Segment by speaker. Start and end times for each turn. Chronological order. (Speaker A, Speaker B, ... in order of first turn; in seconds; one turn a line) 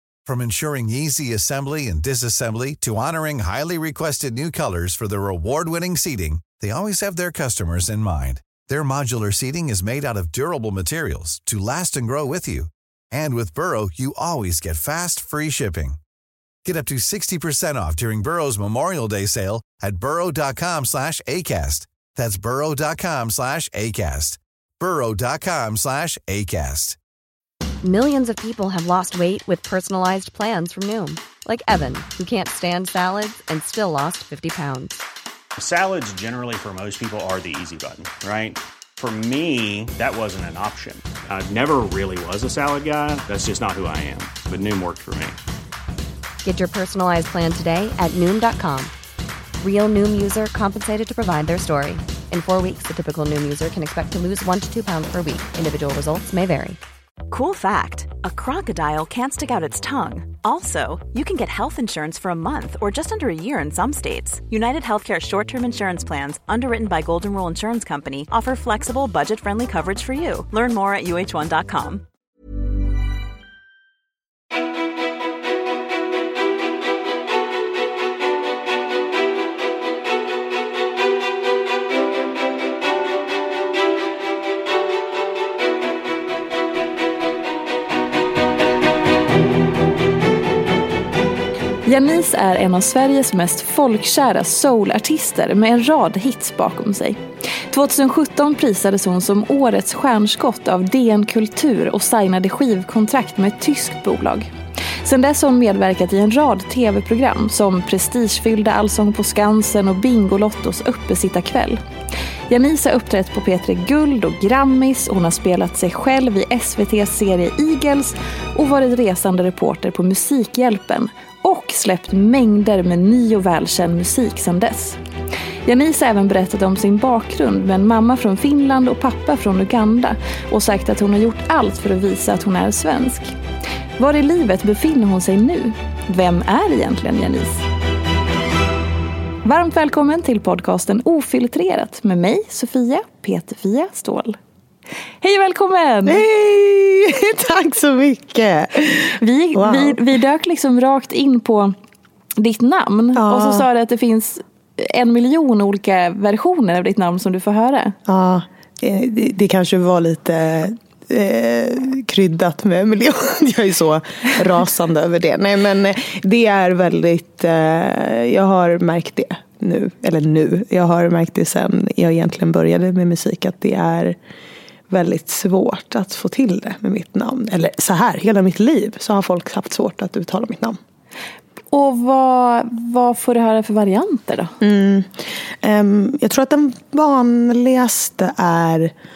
Speaker A: 0.2-16.0
Speaker A: 16.6-27.0
Speaker B: 27.8-35.0
Speaker C: 35.6-45.4
Speaker B: 46.4-48.9
Speaker B: 49.6-56.8
Speaker D: 57.3-72.0
Speaker E: 91.8-111.8
Speaker E: 112.5-125.0
Speaker E: 125.6-133.3
Speaker E: 134.0-137.6
Speaker E: 139.4-144.4
Speaker E: 145.2-146.2
Speaker F: 146.1-150.0
Speaker E: 149.2-151.7
Speaker E: 152.4-158.0
Speaker F: 153.2-153.7
Speaker F: 158.1-174.2
Speaker F: 174.9-180.8
Speaker E: 181.7-184.5
Speaker F: 184.6-188.9